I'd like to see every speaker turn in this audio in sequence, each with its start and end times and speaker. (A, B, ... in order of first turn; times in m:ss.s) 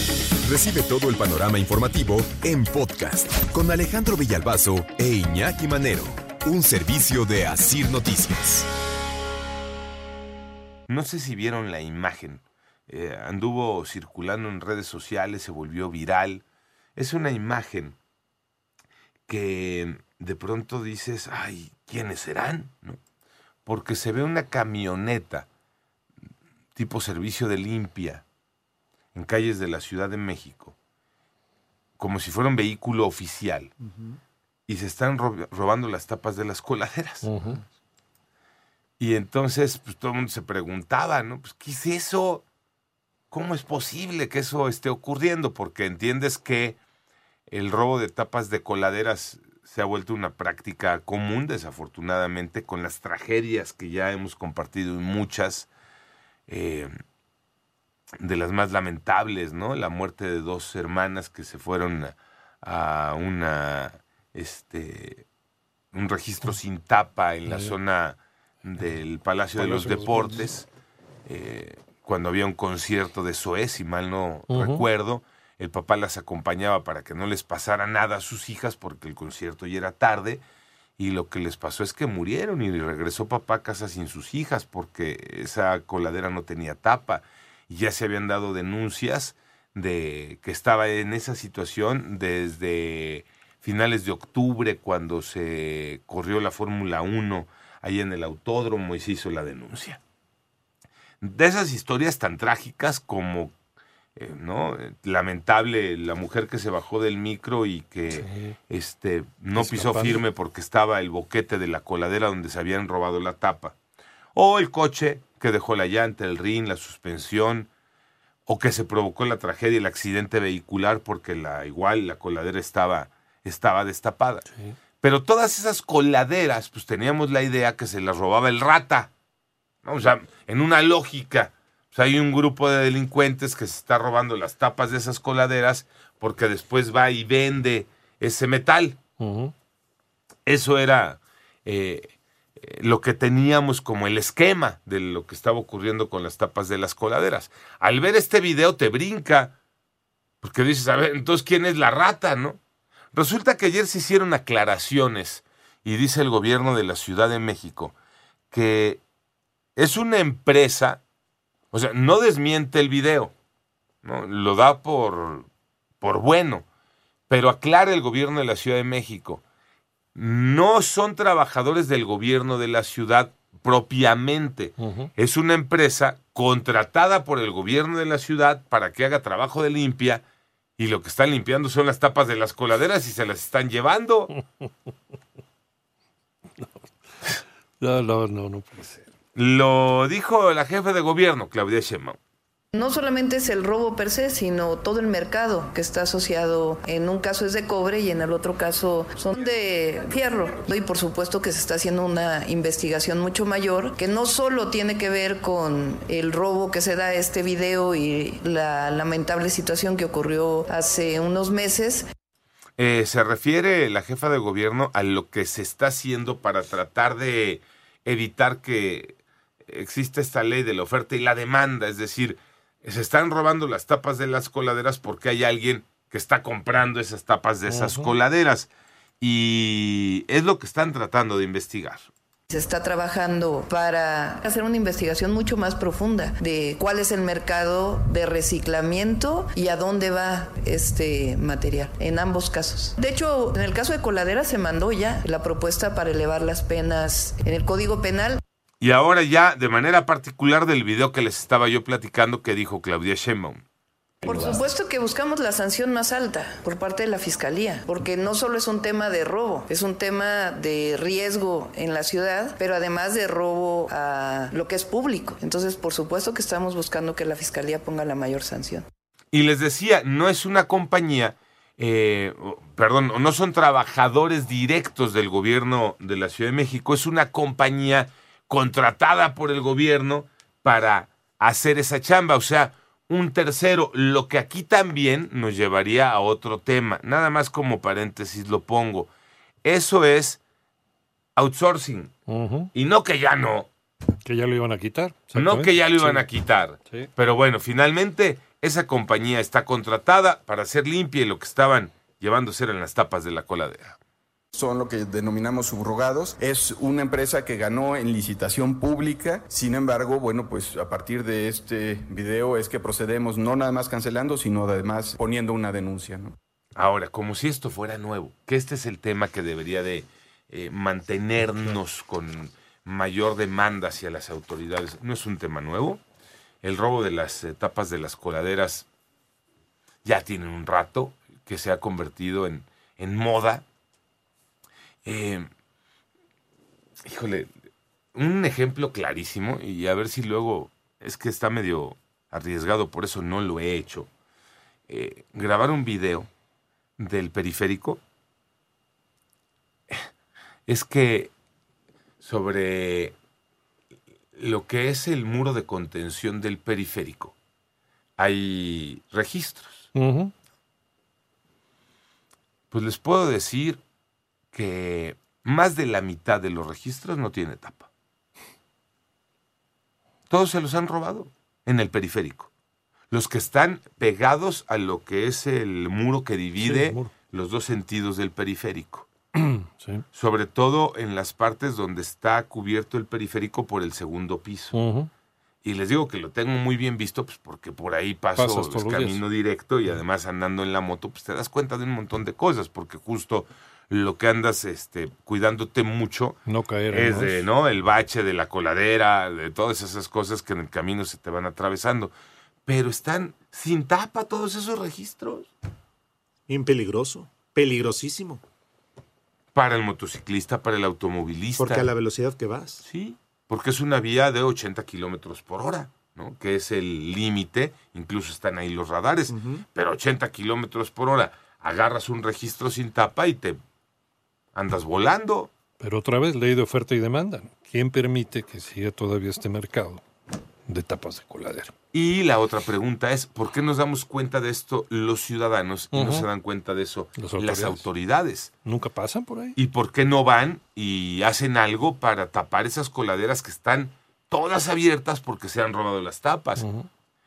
0:00.7-0:08.5 A
0:10.9-0:16.4 B
0:17.0-0:18.0 B
0:19.3-0:23.0 B
0:23.7-0:25.5 B
0:26.8-0:28.2 B
0:29.1-0:30.8 B
0:32.0-0:33.7 B
0:34.7-0:37.3 B
0:37.2-0:37.6 C
0:39.0-0:42.4 B
0:43.3-0:46.8 B
0:47.5-0:55.7 B
0:56.5-0:56.9 B
0:58.2-1:05.2 B
1:05.9-1:10.7 B
1:07.5-1:07.8 C
1:09.6-1:10.5 C
1:11.3-1:20.4 B
1:14.5-1:14.9 C
1:21.0-1:40.0 B
1:41.2-1:43.5 B
1:44.2-1:53.8 B
1:48.1-1:48.5 C
1:49.6-1:50.2 C
1:54.3-1:57.7 B
1:58.5-2:04.4 B
2:05.0-2:09.1 B
2:09.8-2:19.0 B
2:19.2-2:19.5 C
2:20.5-2:29.6 B
2:30.4-2:32.6 B
2:33.1-2:37.9 B
2:38.5-2:39.0 B
2:39.8-2:41.0 B
2:41.7-2:43.3 B
2:44.0-2:45.5 B
2:46.0-2:46.6 B
2:47.3-2:49.4 B
2:50.2-3:00.2 B
2:54.8-2:55.1 C
3:00.8-3:04.3 B
3:07.2-3:09.1 C
3:09.3-3:12.2 B
3:12.7-3:32.1 D
3:32.8-3:48.7 B
3:47.7-3:48.2 C
3:49.2-3:52.1 B
3:52.5-4:08.4 D
4:08.8-4:13.6 B
4:14.2-4:28.9 D
4:14.3-4:14.6 B
4:29.3-4:49.1 B
4:49.6-4:50.4 B
4:51.4-4:52.1 B
4:52.3-4:52.7 C
4:52.7-4:53.7 B
4:54.2-4:56.3 C
4:55.4-5:04.0 B
5:04.5-5:16.4 E
5:16.8-5:26.0 B
5:26.6-5:28.9 B
5:30.0-5:33.6 B
5:35.0-5:35.5 B
5:37.1-5:37.5 B
5:38.1-5:44.1 B
5:44.9-5:46.3 B
5:47.0-5:48.0 B
5:50.7-5:51.3 B
5:52.2-5:53.1 B
5:54.4-5:57.4 B
5:58.2-5:59.9 B
5:59.9-6:00.3 C
6:02.7-6:03.8 B
6:04.5-6:07.9 B
6:10.3-6:12.5 B
6:13.1-6:19.1 B
6:16.6-6:17.1 C
6:19.4-6:20.0 C
6:20.1-6:24.8 B
6:24.7-6:25.1 C
6:25.6-6:36.4 B
6:28.4-6:29.2 C
6:36.5-6:37.5 C
6:36.9-6:42.1 B
6:42.7-6:45.5 B
6:46.5-6:48.4 F
6:49.5-6:51.9 B
6:51.6-6:52.9 F
6:52.8-7:03.6 B
6:59.3-6:59.6 F
7:04.6-7:05.5 B
7:05.8-7:10.0 C
7:10.7-7:11.7 C
7:11.9-7:18.5 B
7:15.9-7:16.3 C
7:17.2-7:17.9 C
7:18.6-7:19.6 C
7:19.6-7:26.6 B
7:26.6-7:26.9 C